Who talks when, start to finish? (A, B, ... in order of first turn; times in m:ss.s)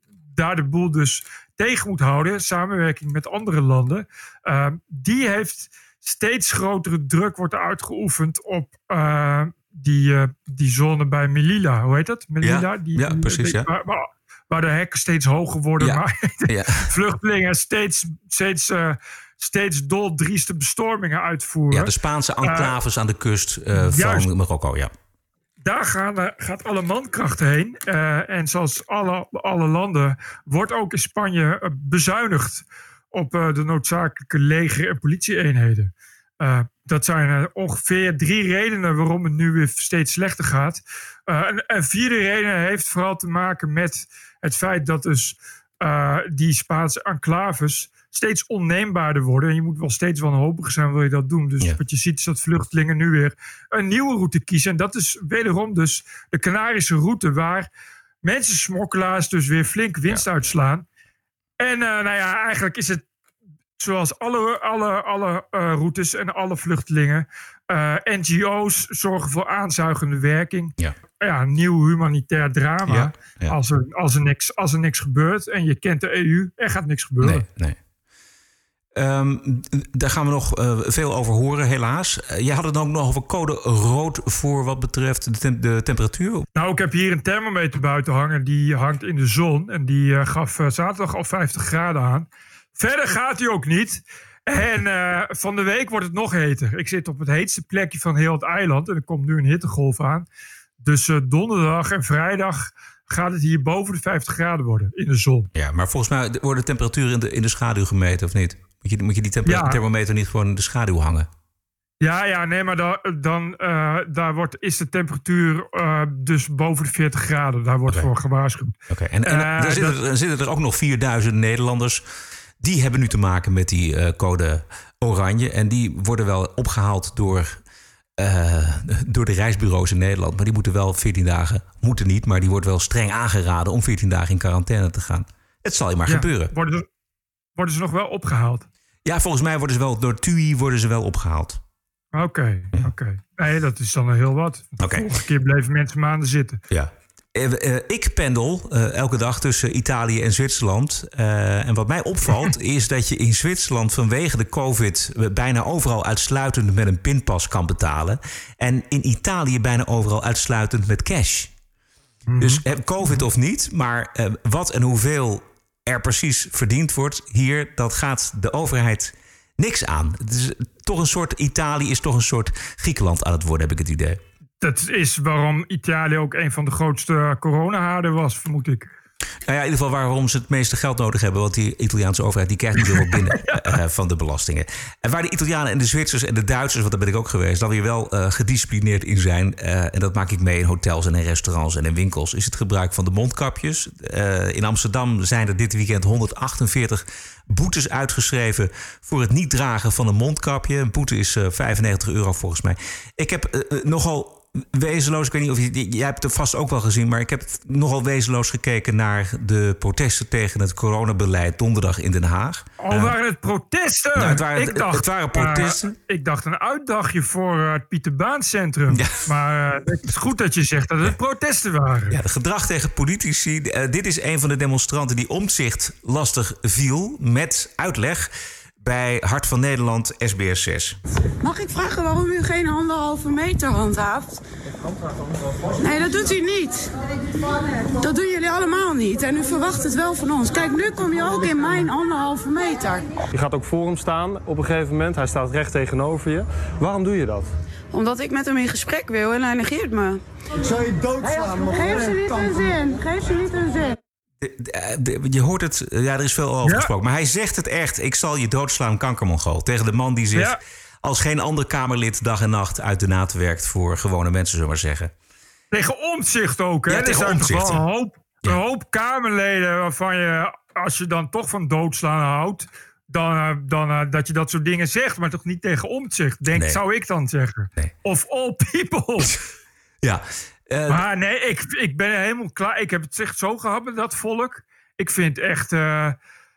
0:00.3-0:22.7 A
0:12.4-0:13.7 B
0:15.8-0:16.9 B
0:21.7-0:24.9 B
0:23.8-0:24.3 A
0:25.6-0:57.7 A
0:58.2-1:00.8 A
1:01.6-1:03.0 A
1:03.8-1:17.4 A
1:12.9-1:13.6 B
1:17.2-1:17.8 B
1:19.0-1:26.5 B
1:26.5-1:40.3 A
1:40.8-1:45.5 A
1:45.5-1:51.3 B
1:49.5-1:49.8 A
1:52.0-2:00.0 A
1:58.9-2:02.0 B
2:02.6-2:07.6 B
2:08.2-2:16.5 B
2:16.1-2:16.8 A
2:17.6-2:18.7 A
2:19.0-2:21.6 B
2:22.1-2:26.6 A
2:24.8-2:25.0 B
2:26.7-2:41.5 B
2:42.3-2:43.2 A
2:42.4-2:54.2 B
2:54.6-2:58.9 A
2:59.5-3:33.2 B
3:02.8-3:03.7 A
3:32.8-3:42.2 A
3:34.2-3:36.0 B
3:38.9-3:39.2 B
3:42.1-3:51.0 B
3:51.4-3:54.4 C
3:55.8-3:56.9 C
3:58.0-4:03.1 C
4:03.3-4:07.5 D
4:07.9-4:10.2 C
4:11.2-4:14.0 C
4:14.4-4:25.1 B
4:16.6-4:16.9 A
4:25.7-4:39.4 A
4:26.9-4:27.8 B
4:36.5-4:36.8 B
4:40.0-4:41.0 B
4:40.9-4:46.2 A